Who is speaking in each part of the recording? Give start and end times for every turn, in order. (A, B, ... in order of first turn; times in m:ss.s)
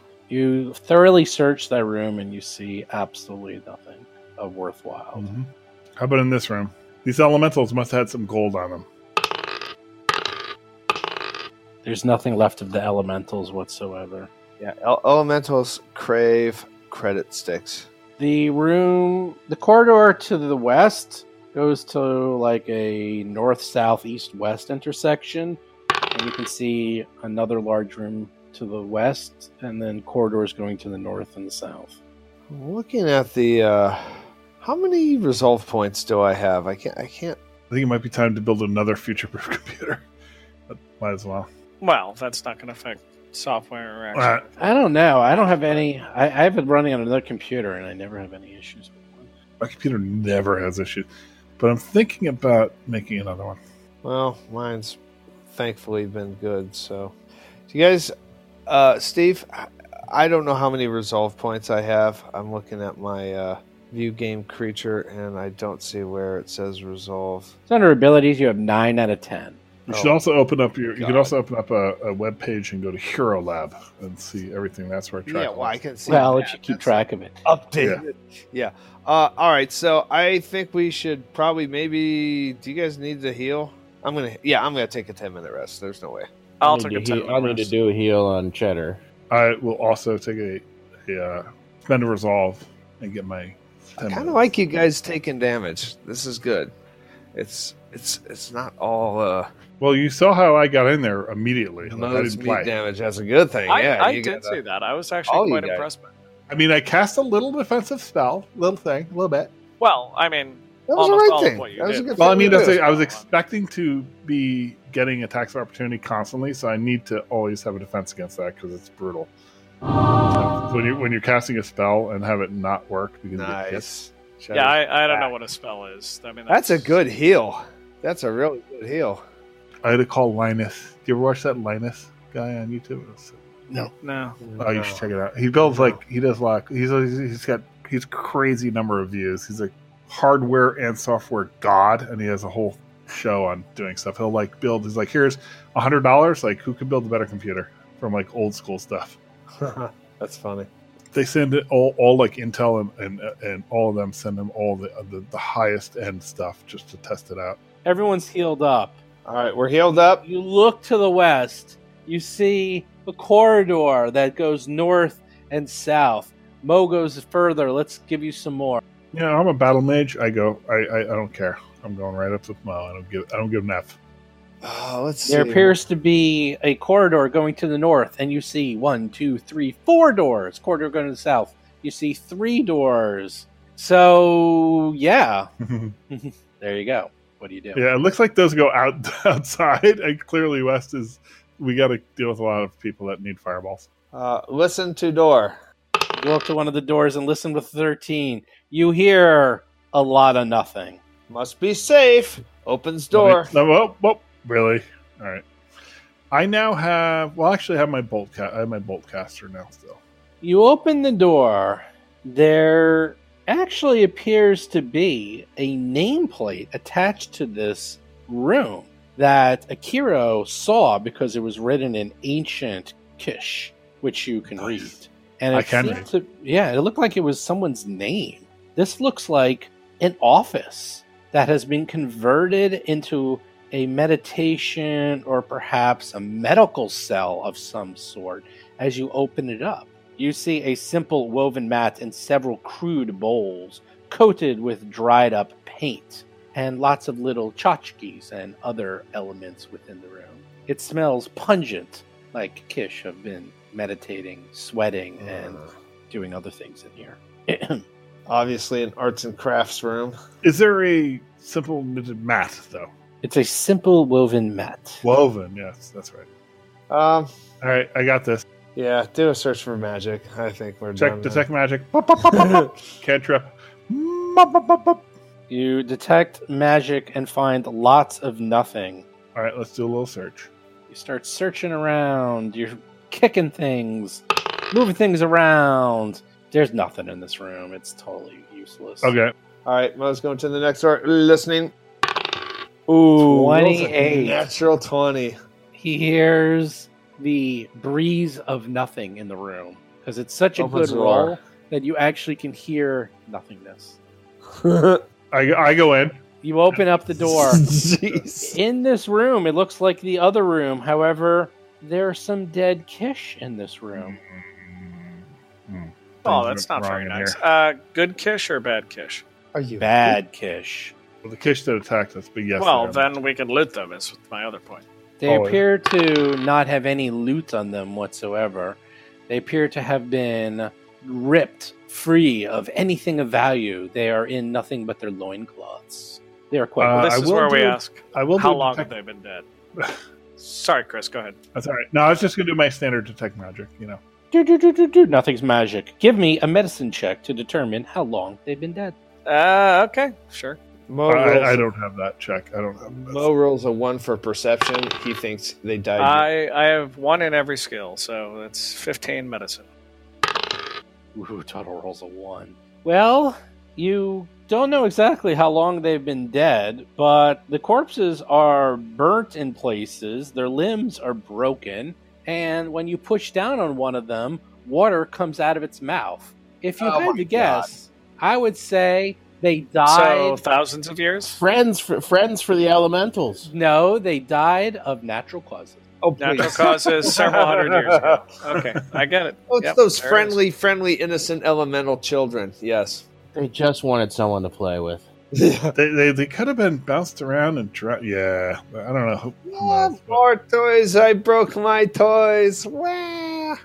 0:00.3-0:05.2 A
0:05.2-0:08.8 B
0:11.8-0:14.3 A
0:14.6-0:17.9 C
0:18.2-0:25.6 A
0:26.1-0:32.0 A
0:32.5-0:37.4 C
0:37.7-0:40.0 B
0:40.7-0:41.5 B
0:41.8-0:44.7 D
0:44.1-0:44.4 B
0:44.6-0:49.3 A
0:45.3-0:45.8 D
0:49.6-0:53.6 B
0:54.0-0:55.0 C
0:55.5-0:57.2 C
0:57.7-0:58.1 C
0:58.7-1:07.5 C
1:07.7-1:09.6 A
1:09.9-1:15.8 B
1:09.9-1:10.2 C
1:10.9-1:11.3 C
1:15.2-1:26.3 C
1:16.1-1:17.4 A
1:26.6-1:27.7 D
1:26.6-1:29.0 E
1:29.3-1:34.4 B
1:34.0-1:36.7 C
1:37.3-1:39.5 C
1:39.8-1:42.7 B
1:41.8-1:44.6 C
1:43.7-1:46.1 D
1:45.2-1:45.8 C
1:46.5-1:49.5 B
1:49.8-1:53.3 D
1:50.9-1:52.8 C
1:52.2-1:59.3 B
2:00.3-2:04.0 B
2:03.3-2:05.3 C
2:04.5-2:07.0 D
2:06.5-2:09.2 C
2:09.8-2:13.4 B
2:14.0-2:14.4 D
2:14.4-2:15.1 C
2:14.6-2:29.2 B
2:15.6-2:16.0 C
2:29.6-2:30.7 C
2:31.1-2:37.6 B
2:37.8-2:39.0 A
2:39.2-2:40.2 C
2:40.2-2:48.8 A
2:49.1-2:54.0 B
2:54.6-2:55.8 C
2:55.2-3:05.5 A
3:05.6-3:05.9 B
3:06.1-3:07.8 A
3:07.7-3:13.9 B
3:14.1-3:15.6 C
3:16.2-3:21.0 A
3:21.3-3:23.5 C
3:23.1-3:25.4 B
3:26.3-3:30.0 B
3:30.4-4:17.8 A
3:44.6-3:44.9 B
3:45.5-3:46.0 B
4:15.2-4:15.7 C
4:18.3-4:20.2 C
4:20.4-4:22.9 B
4:23.2-4:25.0 A
4:25.0-4:26.3 B
4:26.9-4:27.3 C
4:27.6-4:28.4 B
4:28.7-4:31.4 C
4:31.0-4:35.0 B
4:32.2-4:32.7 C
4:35.5-4:39.0 A
4:39.3-4:40.5 B
4:40.9-4:49.1 A
4:49.0-4:49.3 B
4:49.6-4:51.7 C
4:52.9-4:55.4 C
4:53.1-4:54.4 A
4:55.7-5:04.0 A
5:00.6-5:01.4 C
5:04.5-5:05.0 C
5:05.3-5:06.2 B
5:06.4-5:07.6 A
5:07.2-5:08.6 C
5:08.4-5:14.2 A
5:14.0-5:17.4 B
5:16.2-5:19.2 D
5:19.5-5:20.2 C
5:19.8-5:20.9 A
5:21.2-5:23.1 B
5:22.6-5:24.8 D
5:25.2-5:37.1 A
5:25.2-5:25.6 B
5:36.8-5:38.9 B
5:36.9-5:39.4 D
5:40.4-5:41.4 D
5:41.5-5:44.0 B
5:44.3-5:48.9 A
5:49.2-5:50.6 D
5:50.9-5:51.7 C
5:51.1-5:53.2 B
5:52.8-5:56.3 C
5:56.0-5:59.7 D
6:01.1-6:20.4 A
6:16.8-6:17.7 C
6:19.8-6:21.4 D
6:21.3-6:23.5 E
6:23.4-6:25.8 A
6:26.0-6:28.2 C
6:26.2-6:30.4 D
6:29.5-6:33.0 C
6:33.3-6:35.0 E
6:35.3-6:35.7 C
6:35.7-6:40.2 B
6:39.5-6:43.6 C